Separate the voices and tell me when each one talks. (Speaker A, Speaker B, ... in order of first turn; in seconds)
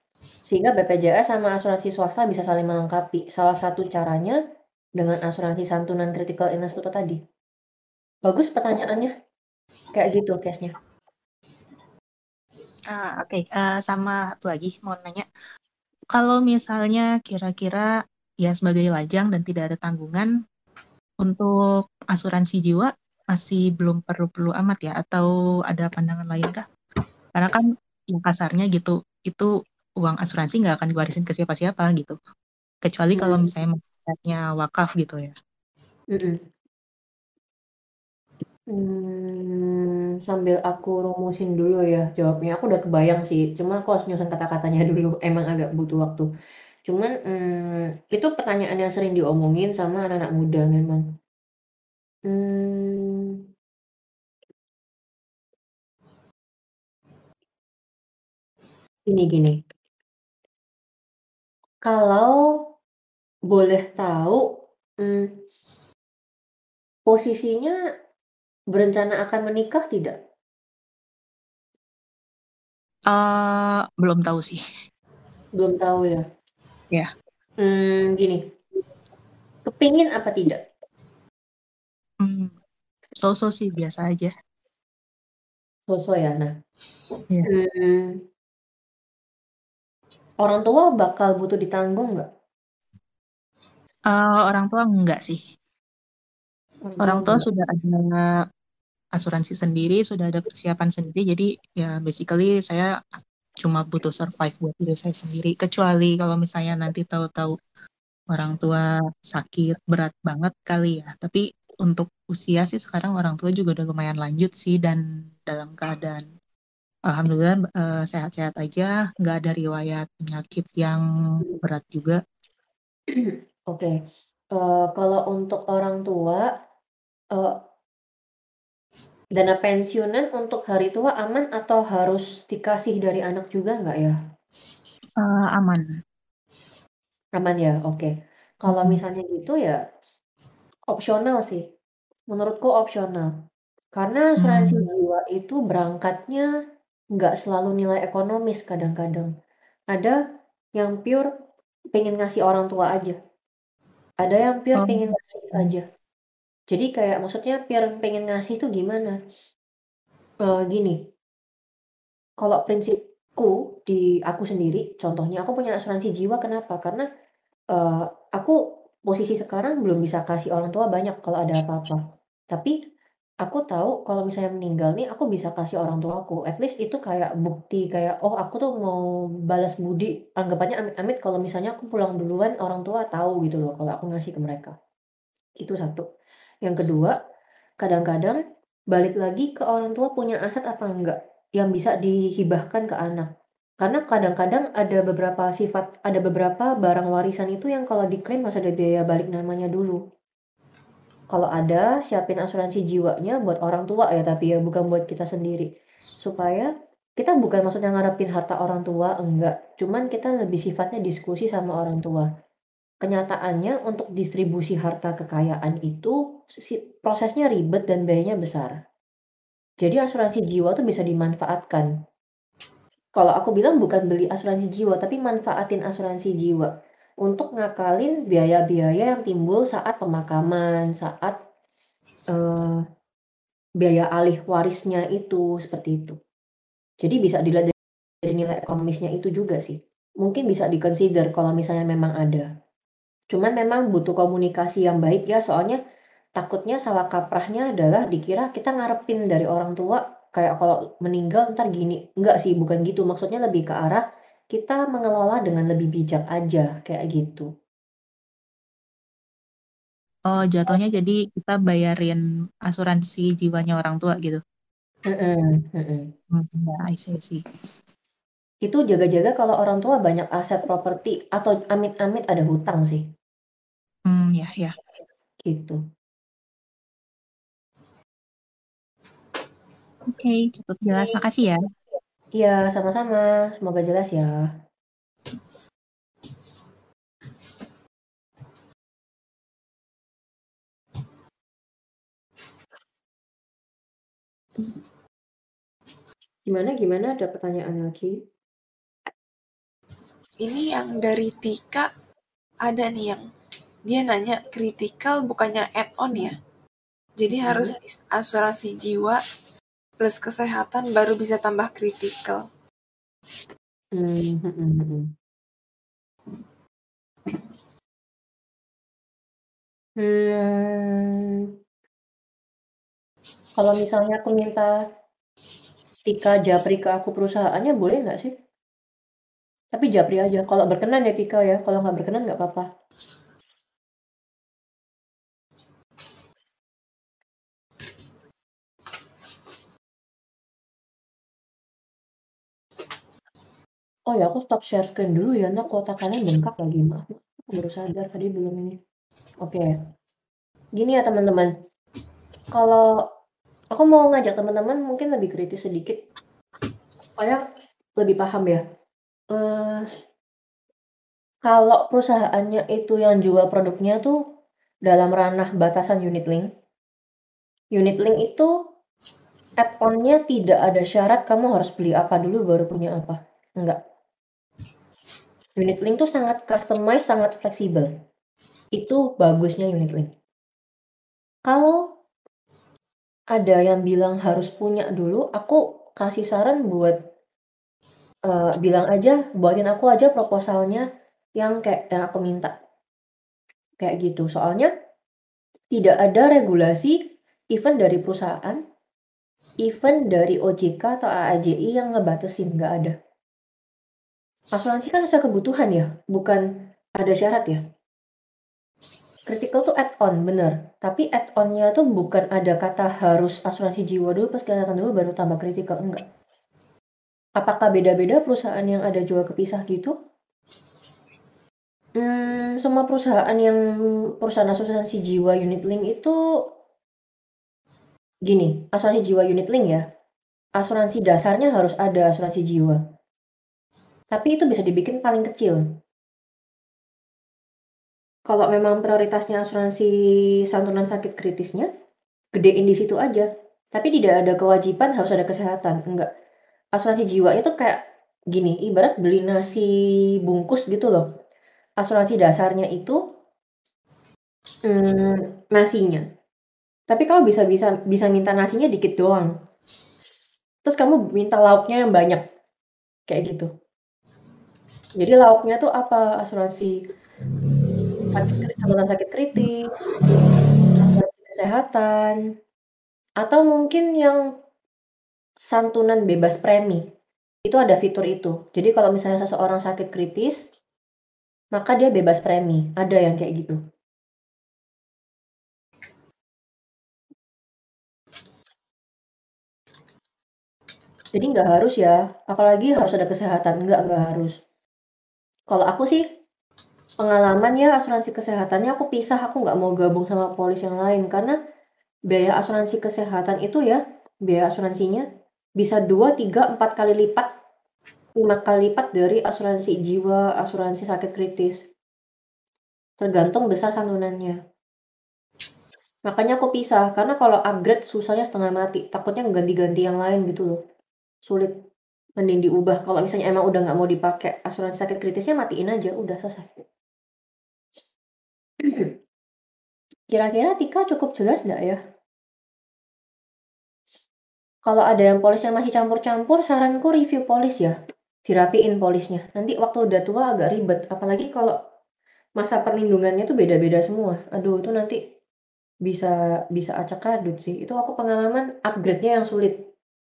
Speaker A: 0.4-4.4, 5.0-7.2, 8.2-9.1, 9.9-10.7, 33.1-33.5, 36.1-36.4, 38.7-46.3, 46.9-51.0, 52.3-53.4, 59.1-59.6, 61.8-62.4, 63.5-64.4, 65.0-65.3, 67.1-67.7, 68.7-70.2, 75.6-76.2, 77.6-78.4, 79.6-80.6, 85.9-86.5, 87.5-88.2, 90.4-92.3, 96.8-97.5, 123.1-124.0, 124.5-126.5, 129.3-134.2, 137.4-138.1, 138.6-139.8, 140.9-141.6, 142.3-143.3, 143.9-146.5, 147.2-149.3, 150.8-151.3, 151.9-153.2, 154.2-155.8, 156.7-159.2, 160.4-161.0, 162.4-167.1, 167.7-168.6, 169.1-172.7, 173.4-184.7, 185.6-186.0, 186.6-187.2, 187.8-188.4, 188.9-193.3, 193.8-200.0, 201.3-205.7, 206.2-212.3, 213.0-218.7, 219.8-221.9, 223.2-226.7, 227.2-231.4, 232.3-232.8, 233.8-236.2, 237.0-242.5, 243.3-245.8, 246.4-257.5, 265.1-266.1, 268.6-273.1, 275.4-275.8, 282.4-284.5, 296.5-298.2, 307.4-307.7, 313.9-315.1, 320.0-321.5, 323.6-324.7, 326.0-328.3, 329.7-332.7, 344.1-348.8, 349.4-349.7, 350.8-351.5, 352.5-352.9, 353.7-356.0, 357.2-357.4, 358.0-358.6, 359.3-359.9, 361.4-364.2, 364.9-366.5, 367.7-368.5, 369.6-373.8, 375.6-377.9, 378.7-380.1, 381.5-381.8, 383.3-386.9, 388.3-390.8, 391.4-392.5, 393.8-394.7, 395.7-397.0, 397.5-398.6, 399.6-402.9, 404.5-406.4, 407.0-407.6, 409.3-416.0, 417.4-419.9, 422.0-423.6, 424.2-426.1, 428.2-429.8, 430.6-432.8, 434.1-435.6, 438.3-439.9, 440.5-441.7, 442.3-446.1, 446.8-449.7, 450.2-451.1, 451.8-453.0, 454.6-456.1, 456.9-459.3, 460.6-462.2, 463.1-463.5, 464.9-466.8, 468.1-469.9, 470.7-472.2, 473.2-474.2, 475.5-476.8, 477.4-480.4, 481.5-483.6, 491.1-494.3, 495.5-496.0, 497.0-501.4, 502.1-505.0, 505.6-507.3, 508.2-511.6, 513.0-514.4, 516.0-520.6, 521.2-521.5, 522.2-526.5, 528.6-528.9, 530.1-531.8, 534.6-537.7, 538.3-541.5, 542.4-545.0, 545.8-549.6
Speaker B: 12.9-15.3, 16.1-17.9, 18.4-20.3, 21.2-21.5, 22.1-26.6, 27.3-32.2, 32.8-35.4, 73.1-74.6, 82.2-82.5, 83.2-84.3, 94.1-95.4, 97.0-98.3, 99.2-107.5, 108.3-116.2, 117.1-122.2, 135.2-135.8, 138.7-139.0, 144.4-144.8, 154.8-155.6, 260.3-264.4, 266.3-267.4, 274.1-274.7, 280.1-281.6
Speaker C: 300.4-301.9, 302.6-303.2, 303.9-306.3, 307.2-309.2, 310.0-312.4